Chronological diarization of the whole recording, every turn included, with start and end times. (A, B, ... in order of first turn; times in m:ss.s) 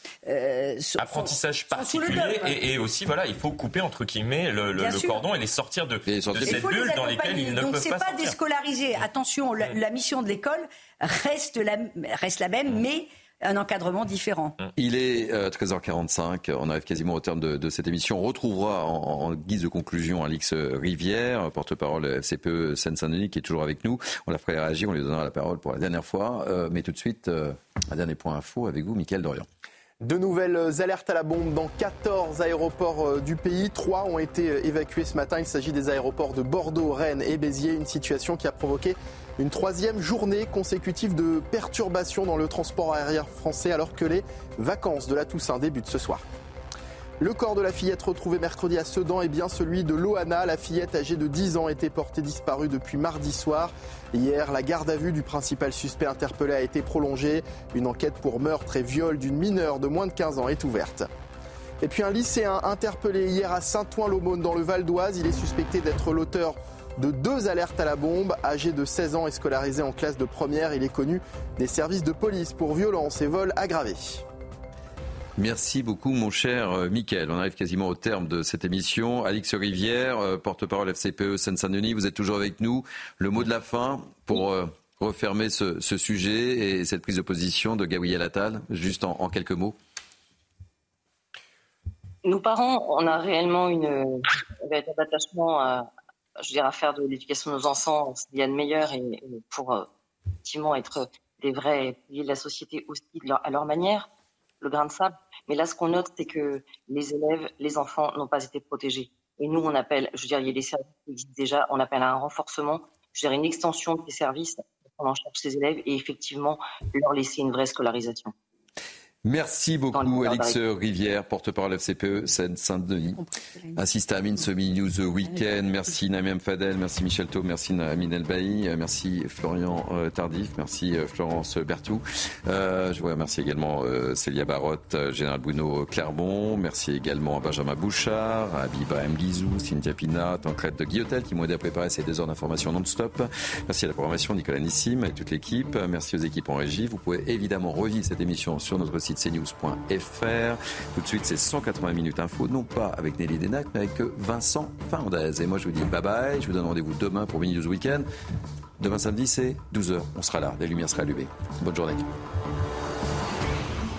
0:00.3-0:02.6 A
0:01.0-0:08.4 B
0:04.8-0:05.2 A
0:06.1-0:06.7 C
0:06.4-0:14.6 A
0:14.8-0:29.5 C
0:30.0-0:46.2 D
0:47.2-1:01.1 D
1:01.8-1:14.2 D
1:15.4-1:29.8 C
1:32.2-1:35.8 E
1:36.4-1:39.9 E
1:40.4-1:44.1 E
1:44.6-1:58.3 E
1:59.2-2:03.2 C
1:59.9-2:00.6 E
2:03.8-2:38.1 C
2:38.8-2:42.0 C